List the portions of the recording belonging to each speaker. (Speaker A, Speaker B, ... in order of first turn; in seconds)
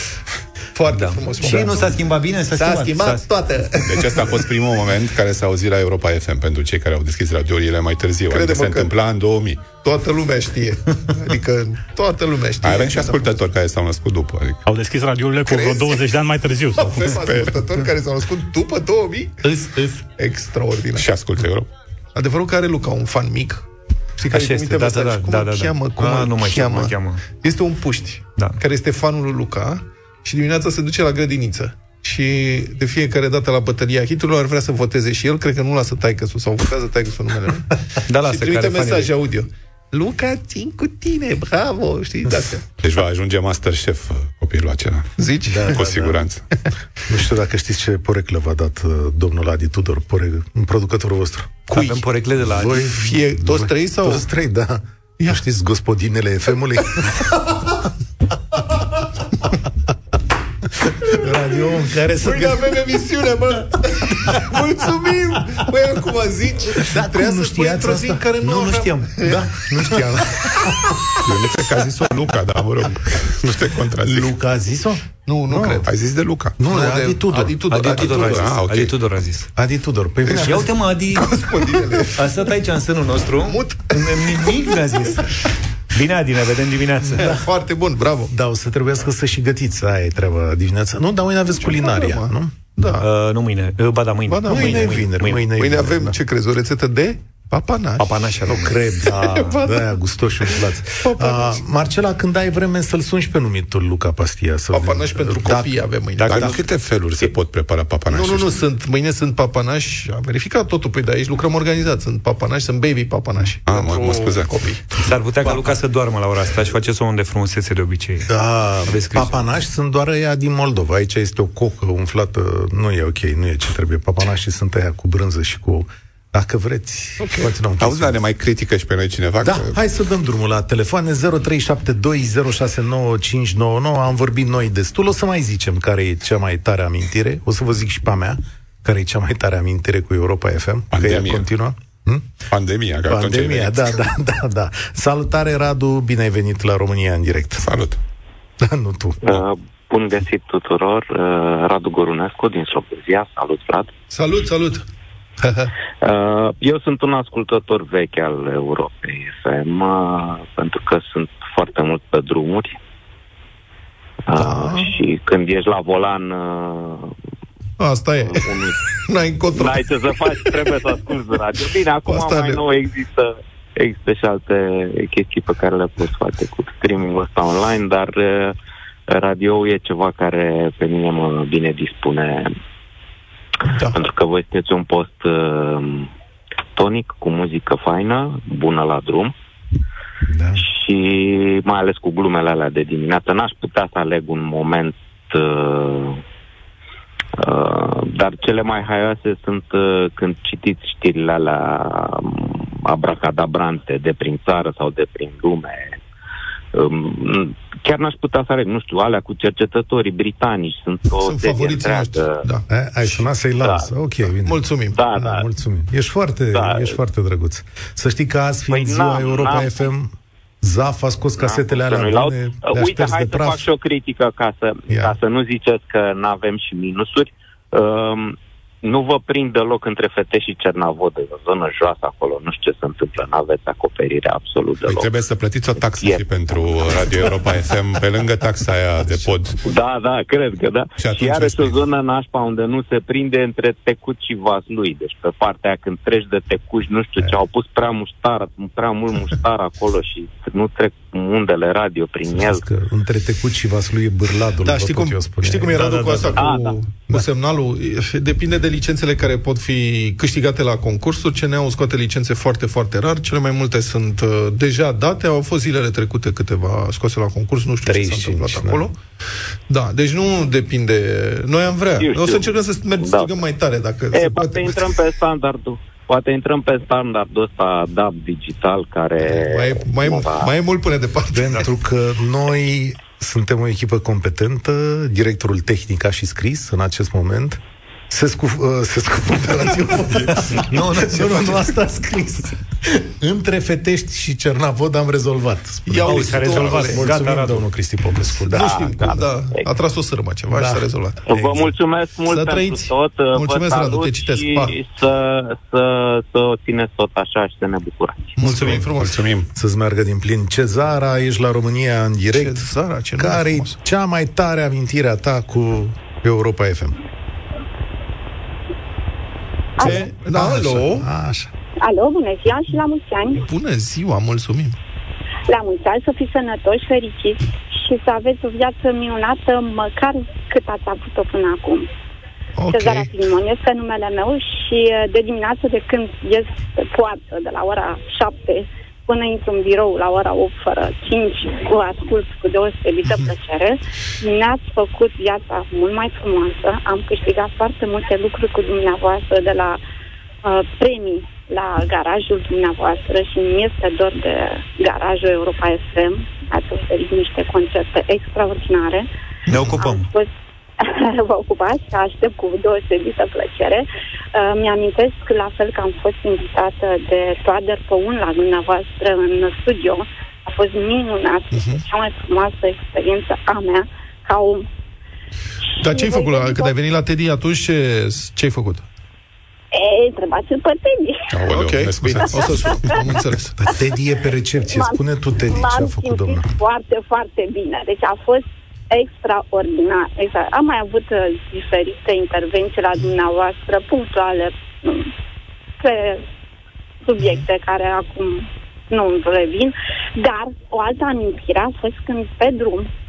Speaker A: 0.7-1.9, 2.6-4.1, 8.3-8.9, 9.8-13.4, 15.5-16.0, 16.8-19.4, 20.2-21.1, 22.1-37.7, 38.2-42.6, 45.2-45.8, 51.7-52.0, 52.9-54.2, 62.2-69.4, 75.2-75.9, 76.6-78.6, 81.1-82.3, 83.4-84.7, 87.0-88.3, 91.7-93.1, 94.3-98.2, 99.1-99.8, 101.0-101.6, 104.7-106.6, 108.1-114.8, 127.2-127.5, 154.1-154.8, 155.4-155.7, 164.3-164.9, 167.8-168.5, 169.1-170.5, 172.1-172.6, 183.7-184.0, 211.2-212.6, 214.4-215.0, 254.6-269.0, 269.7-274.9, 279.2-281.6, 295.9-297.1, 298.5-301.2, 302.3-304.7, 308.4-309.2, 312.3-313.7, 319.8-321.1, 323.4-324.8, 332.6-333.1, 371.5-371.8, 375.8-378.8, 381.5-383.6
Speaker B: 0.9-3.3, 19.4-20.0, 24.3-27.2, 38.1-39.1, 51.7-52.9, 68.3-70.1, 77.7-79.5, 80.4-81.4, 82.1-85.3, 85.9-87.4, 93.0-95.5, 98.0-99.5, 115.0-118.3, 118.9-119.3, 255.8-256.3, 290.6-291.7, 296.1-297.6, 308.4-308.8, 359.5-360.1
Speaker C: 3.8-9.7, 12.6-14.6, 17.1-17.5, 20.9-21.7, 42.8-45.1, 45.7-46.4, 71.2-74.3, 75.8-76.6, 78.1-78.9, 106.2-108.5, 113.7-114.6, 127.8-129.7, 140.9-141.5, 142.5-143.9, 147.6-148.0, 234.8-239.6, 241.0-241.7, 308.6-309.5, 381.3-383.0
Speaker D: 14.7-17.1
Speaker E: 45.5-46.2, 47.1-51.7, 52.4-57.3, 61.0-62.8, 66.8-68.2, 69.2-70.9, 74.0-75.8, 76.6-78.0, 79.5-80.7, 87.2-87.4, 88.3-92.5, 94.5-96.2, 98.5-106.6, 118.3-128.2, 129.4-142.3, 143.1-147.7, 148.6-149.2, 190.3-190.6, 212.7-223.7, 224.9-225.2, 252.3-256.3, 267.8-268.9, 281.3-299.2, 300.5-301.7, 309.5-317.0, 319.8-321.5, 383.6-386.5
Speaker F: 149.2-153.9, 156.0-162.8, 164.3-167.1, 168.2-168.8, 169.5-178.6, 179.1-182.5, 183.9-186.1, 186.8-189.3, 190.6-196.2, 197.3-206.0, 206.7-212.4, 213.6-213.9, 214.9-215.4, 216.5-217.0, 218.7-219.8, 221.4-235.1, 235.9-236.2, 239.7-252.6, 256.4-256.8, 272.0-273.4, 274.1-280.5, 298.5-299.6, 301.3-308.4
Speaker G: 319.8-320.1, 321.8-323.5, 325.5-331.9, 332.7-349.8, 350.4-359.1, 359.6-374.7, 375.8-376.7, 379.7-381.3, 382.4-383.1, 384.6-395.1, 395.8-396.2, 397.0-402.9